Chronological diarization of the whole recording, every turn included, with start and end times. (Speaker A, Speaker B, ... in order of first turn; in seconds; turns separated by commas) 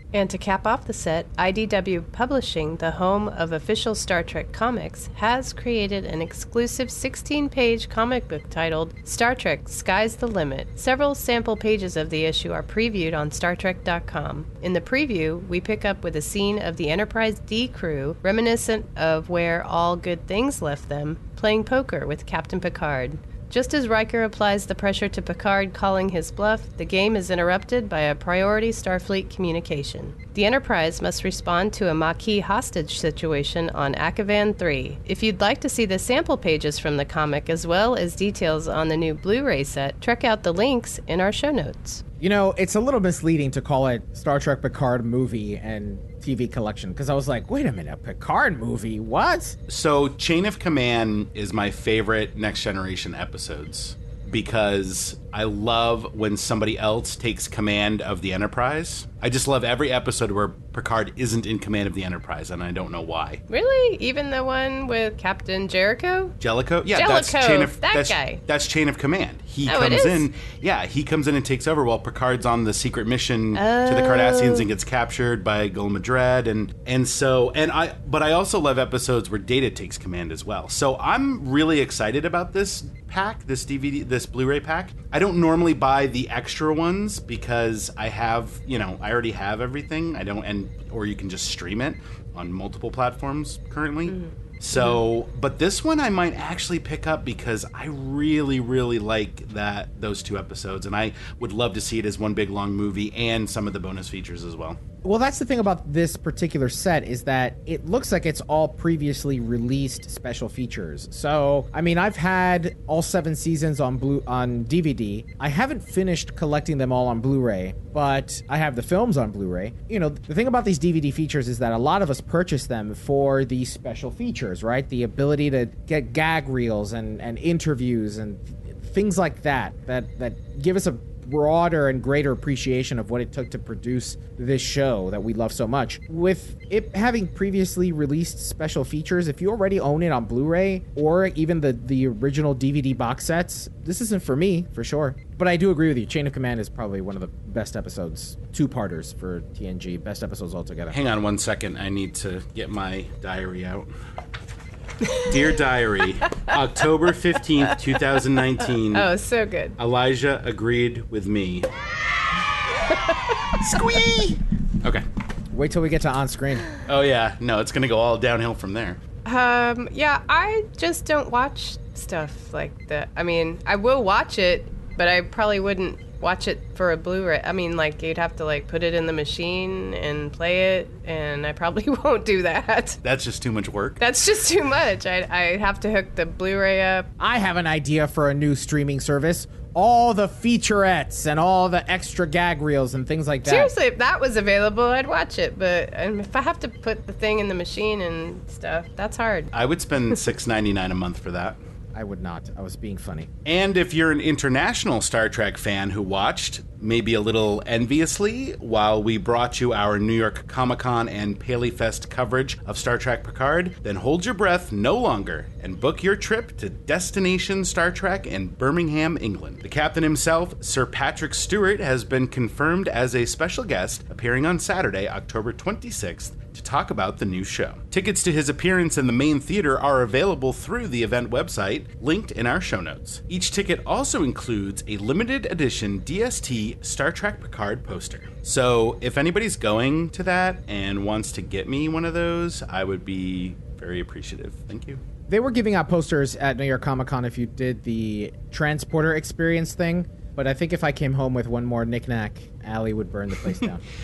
Speaker A: 0.1-42.0, Speaker B: 42.2-49.6, Speaker C: 49.7-63.4, Speaker A: 63.5-66.3, Speaker C: 66.4-104.8, Speaker A: 66.9-68.4, Speaker A: 69.7-70.3, Speaker A: 73.5-74.7, Speaker A: 94.1-95.0, Speaker B: 105.0-151.0, Speaker C: 150.9-153.9, Speaker C: 155.2-159.1, Speaker A: 157.6-159.8, Speaker C: 159.8-161.7, Speaker C: 163.6-165.0, Speaker B: 165.5-166.7, Speaker C: 166.8-169.0, Speaker A: 169.2-183.0, Speaker C: 183.0-184.0, Speaker A: 184.0-187.1, Speaker B: 187.2-193.7, Speaker A: 193.4-199.5, Speaker C: 199.5-201.6, Speaker B: 201.9-203.3, Speaker C: 203.4-245.0, Speaker B: 245.3-253.8